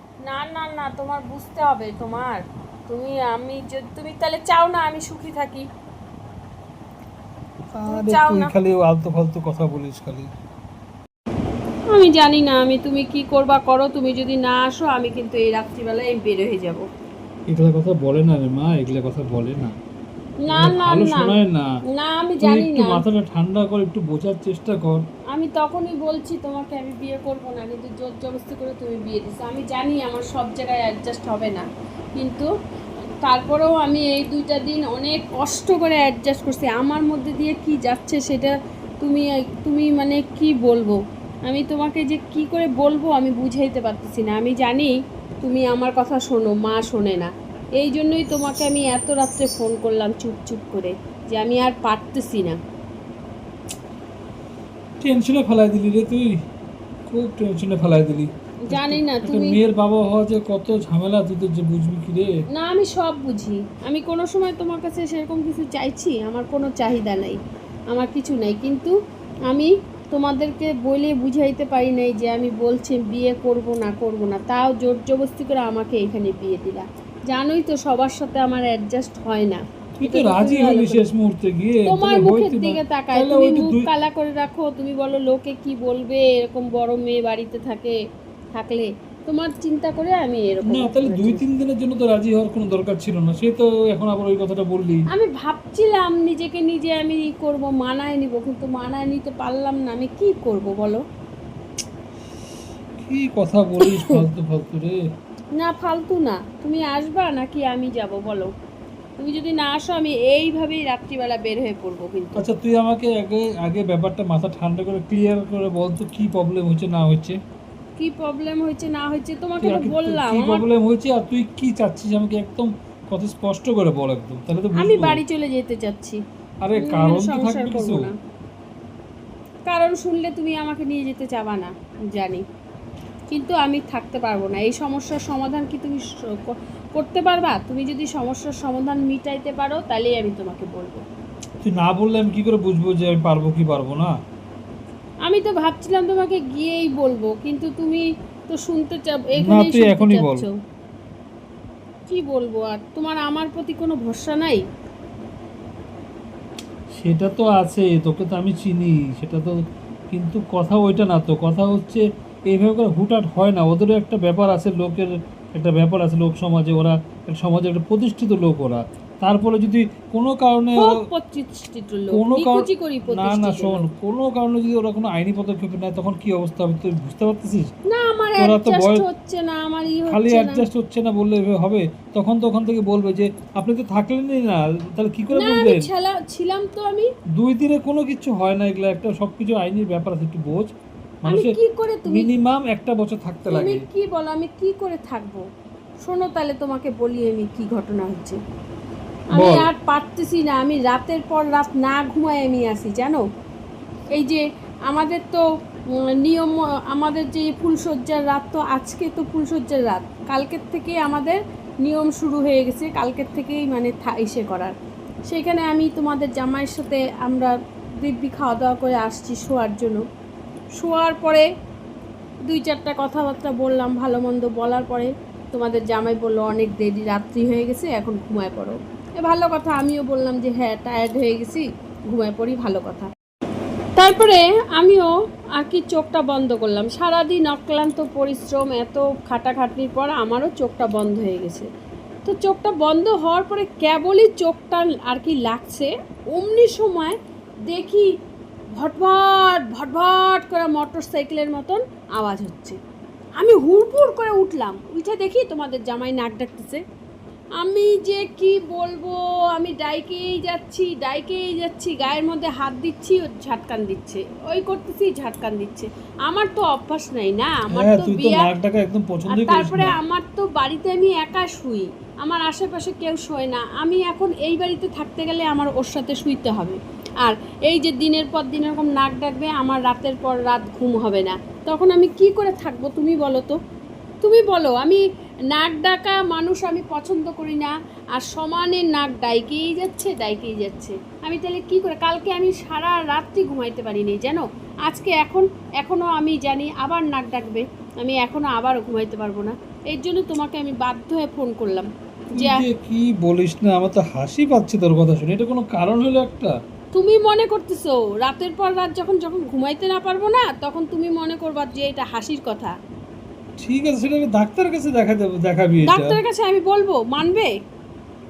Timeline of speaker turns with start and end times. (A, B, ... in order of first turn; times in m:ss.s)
0:00.2-0:05.7 A
0:07.7-0:10.3 B
0:07.9-0:08.5 A
0:11.9-0:16.8 A
0:17.5-0:19.8 B
0:20.4-0:21.3 A
0:20.5-0:21.7 B
0:21.9-0:23.0 A
0:22.4-0:25.0 B
0:25.3-0:32.5 A
0:33.2-0:52.6 A
0:55.0-0:56.4 B
0:57.1-1:02.3 B
0:58.7-0:59.6 A
1:02.5-1:07.4 A
1:07.9-1:08.9 A
1:09.5-1:21.0 A
1:20.0-1:23.9 B
1:21.9-1:28.0 A
1:28.6-1:31.4 A
1:30.6-1:35.1 B
1:35.1-1:41.0 A
1:43.0-1:45.0 B
1:45.6-1:48.5 A
1:49.2-1:52.4 A
1:52.4-1:57.4 B
1:58.0-2:00.7 A
1:59.6-2:05.2 B
2:04.8-2:06.2 A
2:06.6-2:08.1 B
2:06.8-2:08.2 A
2:09.7-2:12.4 A
2:13.3-2:21.0 A
2:21.6-2:24.1 B
2:25.2-2:30.5 A
2:29.4-2:30.4 B
2:32.1-2:34.6 A
2:37.0-2:39.5 B
2:40.1-2:51.0 B
2:50.8-2:53.9 A
2:52.1-2:57.7 B
2:57.9-3:00.6 A
2:58.4-2:59.0 B
3:00.0-3:05.9 B
3:05.3-3:07.1 A
3:07.4-3:10.7 B
3:11.2-3:13.8 B
3:11.3-3:12.3 A
3:13.5-3:15.4 A
3:16.0-3:18.4 A
3:19.3-3:19.7 B
3:19.3-3:23.2 A
3:24.1-3:34.7 A
3:35.3-3:40.0 A
3:40.8-3:41.4 A
3:42.4-3:53.1 A
3:54.0-4:01.7 A
4:02.2-4:08.1 A
4:08.7-4:12.8 A
4:13.4-4:16.8 A
4:17.6-4:28.5 A
4:27.7-4:30.0 B
4:29.3-4:43.6 A
4:44.2-5:02.6 A
5:02.3-5:06.5 B
5:06.9-5:12.7 A
5:13.6-5:16.2 B
5:15.9-5:17.5 A